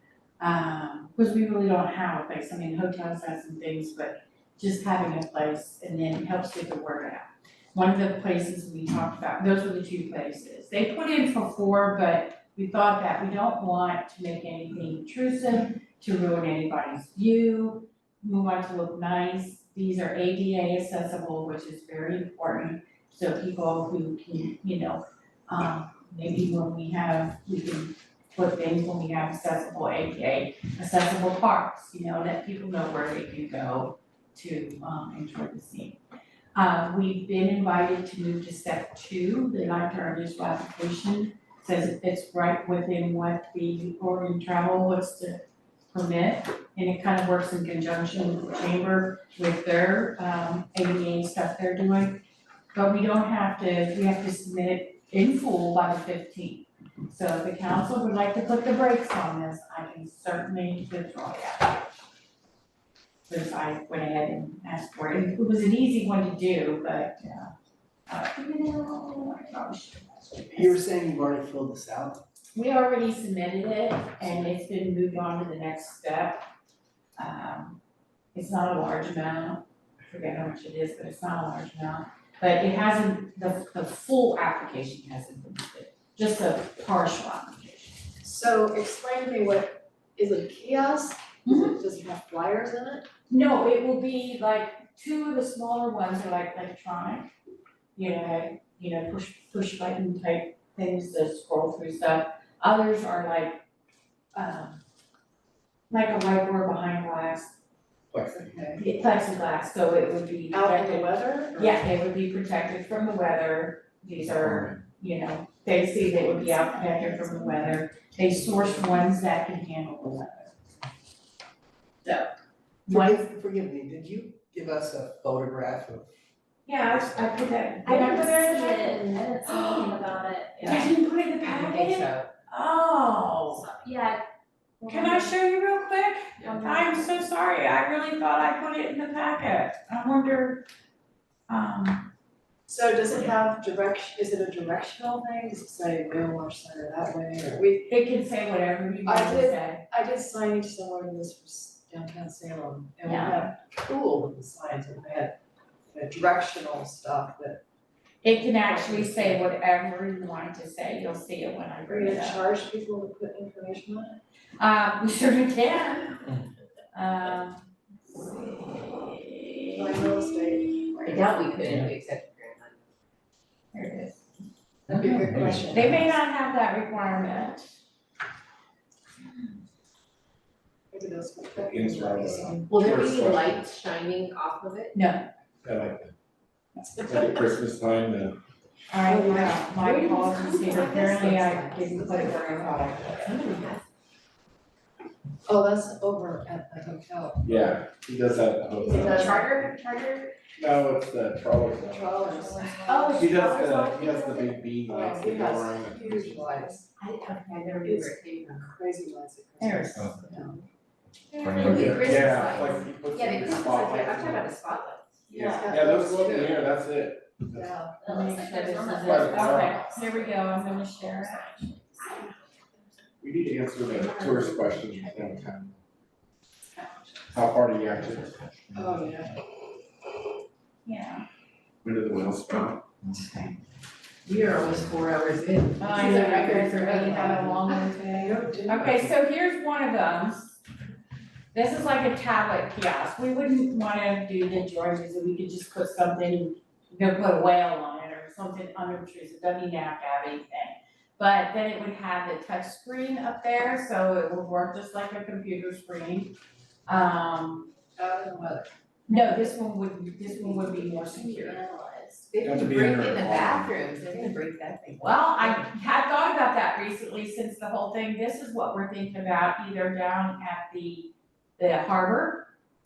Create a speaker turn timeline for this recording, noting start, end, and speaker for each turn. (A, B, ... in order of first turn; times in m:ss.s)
0:00.4-0:36.0 A
0:36.6-0:52.2 A
0:52.7-1:02.0 A
1:03.3-1:07.5 A
1:08.1-1:10.8 A
1:10.6-1:12.2 B
1:12.6-1:16.5 A
1:17.2-1:17.8 A
1:18.3-1:28.0 A
1:28.2-1:33.1 C
1:31.4-1:31.8 A
1:33.3-1:37.3 A
1:38.0-1:43.6 A
1:44.3-1:44.8 A
1:45.9-1:47.6 A
1:48.1-1:48.8 C
1:48.8-2:00.6 A
1:50.5-1:51.9 C
1:54.3-1:54.7 D
2:02.0-2:02.3 A
2:02.9-2:03.2 A
2:02.9-2:06.1 B
2:06.7-2:10.0 A
2:07.8-2:10.9 E
2:10.6-2:10.9 F
2:10.6-2:13.7 A
2:11.4-2:12.3 F
2:13.7-2:14.2 E
2:14.8-2:15.3 E
2:14.9-2:20.7 A
2:16.4-2:16.8 F
2:16.5-2:17.1 E
2:21.5-2:22.1 A
2:22.7-2:27.9 C
2:27.9-2:29.8 A
2:29.0-2:35.4 C
2:35.9-2:37.6 C
2:38.2-2:42.5 A
2:38.6-2:39.4 C
2:41.9-2:44.2 C
2:44.6-2:46.3 A
2:46.9-2:51.2 A
2:49.8-2:51.3 C
2:51.0-2:52.8 F
2:53.7-2:54.2 A
2:54.9-2:56.1 C
2:55.6-2:57.7 A
3:00.9-3:02.8 C
3:01.6-3:03.6 D
3:02.7-3:04.9 F
3:04.9-3:05.3 A
3:05.6-3:06.1 D
3:06.8-3:07.4 C
3:07.0-3:08.4 D
3:08.9-3:13.5 A
3:09.1-3:13.8 F
3:15.5-3:17.6 C
3:17.4-3:19.5 D
3:18.8-3:19.7 C
3:18.9-3:19.6 F
3:20.6-3:22.4 D
3:21.8-3:23.5 C
3:22.8-3:24.4 A
3:23.2-3:26.7 D
3:24.8-3:26.9 C
3:27.0-3:28.7 F
3:27.8-3:30.6 C
3:29.6-3:30.6 A
3:31.3-3:32.2 C
3:31.4-3:35.1 F
3:31.6-3:34.5 D
3:35.3-3:37.7 D
3:35.3-3:35.8 A
3:35.3-3:36.5 C
3:36.1-3:36.5 F
3:37.5-3:38.0 C
3:38.0-3:41.6 E
3:38.0-3:41.8 A
3:39.0-3:39.8 D
3:43.2-3:45.8 D
3:46.8-3:47.3 C
3:47.3-3:48.8 D
3:48.7-3:49.4 C
3:50.8-3:51.2 A
3:51.8-3:52.9 D
3:53.0-3:53.5 A
3:54.3-3:56.7 F
3:55.8-3:59.1 C
3:55.8-4:00.6 A
4:01.5-4:16.4 A
4:16.9-4:17.7 A
4:18.0-4:19.2 C
4:19.1-4:21.7 A
4:20.4-4:22.0 C
4:22.2-4:25.7 F
4:22.4-4:23.8 D
4:25.0-4:32.5 A